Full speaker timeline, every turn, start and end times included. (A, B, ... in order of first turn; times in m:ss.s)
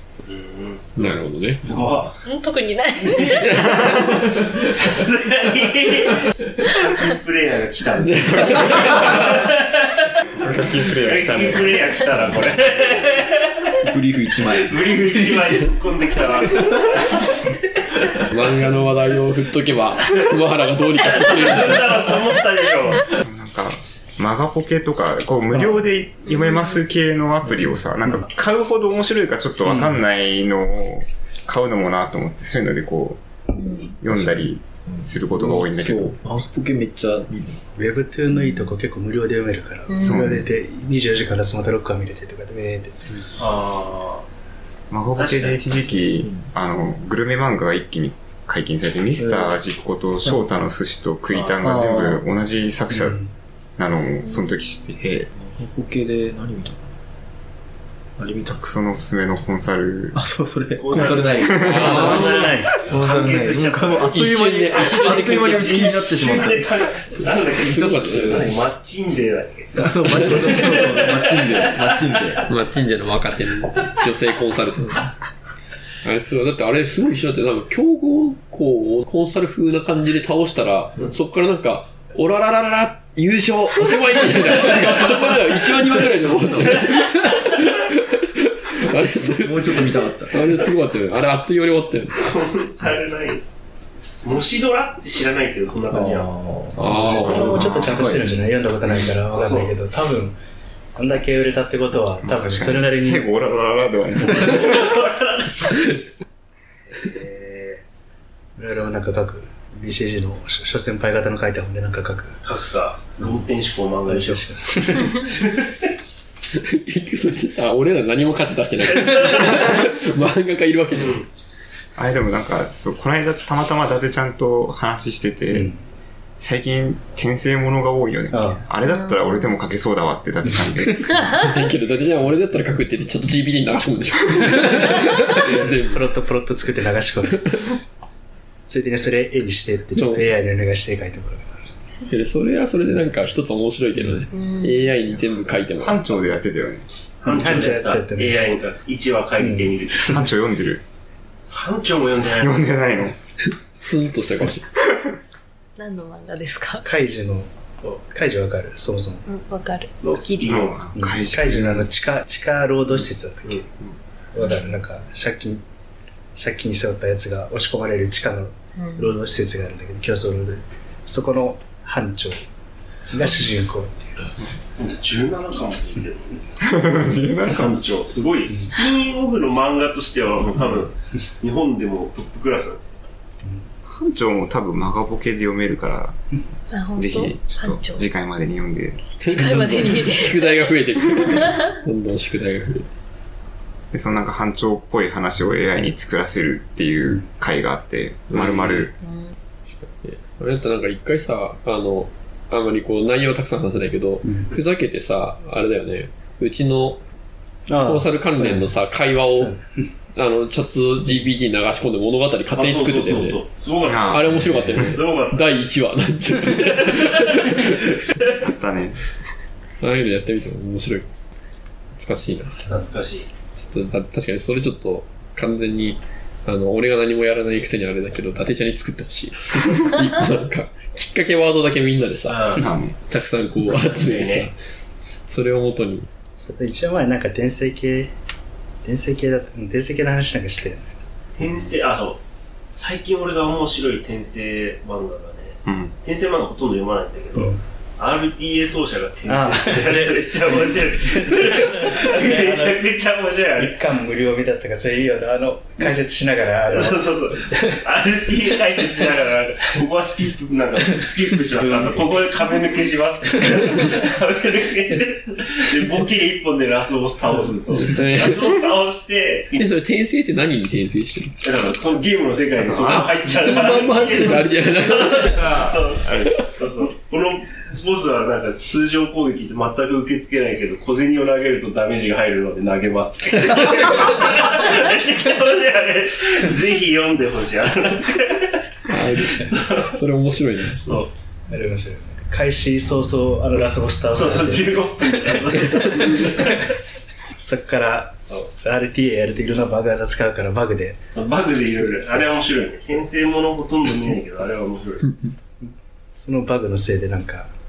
0:00.2-0:01.0 A
0:01.0-0:01.8 B
0:01.6-0:02.2 A
0:02.2-0:04.0 C
0:03.0-0:03.3 A
0:03.2-0:04.5 B
0:04.2-0:10.2 A
0:08.0-0:09.4 B
0:10.4-0:11.7 D
0:11.0-0:13.7 A
0:13.8-0:15.0 E
0:14.4-0:18.2 A
0:18.2-0:22.2 B
0:21.0-0:23.1 A
0:23.1-0:33.2 D
0:29.6-0:30.0 F
0:33.5-0:34.0 C
0:34.0-0:36.2 D
0:34.1-0:37.6 E
0:37.8-0:43.3 F
0:38.3-0:38.7 C
0:39.9-0:40.2 C
0:40.0-0:40.5 D
0:43.4-0:44.2 A
0:44.9-0:53.2 D
0:45.1-0:46.0 A
0:46.2-0:46.5 E
0:49.2-0:49.6 E
0:50.2-0:50.5 E
0:51.3-0:51.6 A
0:51.6-0:52.2 E
0:52.9-0:53.3 F
0:53.8-0:55.0 D
0:55.0-0:56.9 E
0:58.2-0:58.6 E
0:58.4-1:00.2 D
1:00.1-1:02.2 E
1:00.8-1:12.4 A
1:01.4-1:01.8 D
1:01.6-1:02.4 B
1:01.8-1:02.7 F
1:02.9-1:08.5 E
1:04.0-1:06.2 B
1:07.5-1:08.5 B
1:09.7-1:12.4 E
1:10.1-1:10.8 B
1:12.4-1:15.1 B
1:16.0-1:32.3 B
1:26.2-1:26.7 E
1:29.3-1:30.7 E
1:32.1-1:33.4 A
1:34.2-1:36.3 A
1:35.9-1:38.6 E
1:36.8-1:37.9 B
1:36.9-1:40.4 F
1:39.3-1:39.7 A
1:41.0-1:43.3 F
1:42.2-1:44.7 D
1:44.3-1:45.8 A
1:46.9-1:47.8 A
1:48.6-1:52.4 F
1:52.4-1:54.5 A
1:54.0-1:55.4 F
1:55.3-1:55.9 A
1:56.6-2:01.2 B
1:59.0-1:59.8 A
2:00.9-2:01.3 A
2:02.0-2:05.7 D
2:05.5-2:05.8 F
2:06.4-2:11.4 D
2:08.3-2:08.6 F
2:11.4-2:16.1 B
2:15.4-2:17.6 F
2:17.3-2:17.6 B
2:18.7-2:21.7 F
2:19.9-2:20.3 B
2:22.1-2:26.1 B
2:24.3-2:24.8 C
2:25.8-2:26.8 D
2:27.2-2:30.2 A
2:27.2-2:28.4 F
2:29.4-2:30.3 F
2:30.1-2:30.8 D
2:31.5-2:32.7 A
2:32.3-2:33.2 D
2:33.8-2:34.6 B
2:35.8-2:36.8 C
2:36.8-2:39.2 F
2:39.2-2:40.5 C
2:40.0-2:40.8 A
2:40.4-2:41.9 D
2:40.9-2:43.6 F
2:43.4-2:43.9 A
2:44.3-2:45.6 F
2:44.4-2:44.7 C
2:46.3-2:52.4 F
2:48.8-2:49.1 C
2:53.1-2:54.3 F
2:54.8-3:02.9 A
2:56.6-2:57.8 D
2:58.5-2:58.7 F
3:03.9-3:06.4 D
3:06.7-3:08.0 C
3:07.0-3:09.1 D
3:09.2-3:12.9 B
3:09.2-3:10.6 C
3:11.4-3:11.6 C
3:13.9-3:18.9 D
3:18.3-3:18.9 B
3:19.0-3:19.3 C
3:19.7-3:27.0 B
3:24.2-3:24.5 F
3:27.7-3:28.7 F
3:27.8-3:29.6 B
3:29.4-3:29.9 F
3:30.2-3:33.4 B
3:32.5-3:35.5 A
3:33.8-3:35.0 D
3:34.1-3:37.9 B
3:36.6-3:38.3 A
3:38.4-3:39.0 D
3:39.8-3:41.0 B
3:42.0-3:42.6 B
3:42.7-3:43.3 A
3:43.6-3:52.4 B
3:52.2-3:52.7 A
3:52.6-3:52.9 D
3:53.1-3:54.5 B
3:53.7-3:54.5 A
3:55.2-3:56.1 B
3:56.4-3:58.1 F
3:58.8-4:00.9 F
4:01.4-4:02.2 A
4:02.8-4:13.7 A
4:05.6-4:05.9 D
4:07.4-4:07.6 F
4:09.3-4:12.8 F
4:13.4-4:17.8 F
4:16.7-4:29.7 A
4:27.9-4:28.6 B
4:29.6-4:31.3 B
4:31.4-4:48.6 A
4:32.6-4:33.8 D
4:32.8-4:35.6 B
4:35.5-4:36.2 D
4:48.9-4:51.0 B
4:49.4-4:49.9 A
4:50.8-4:51.1 A
4:51.5-4:56.2 F
4:54.1-4:56.6 A
4:57.4-5:01.0 F
5:01.1-5:05.0 A
5:01.6-5:02.3 F
5:05.6-5:07.5 F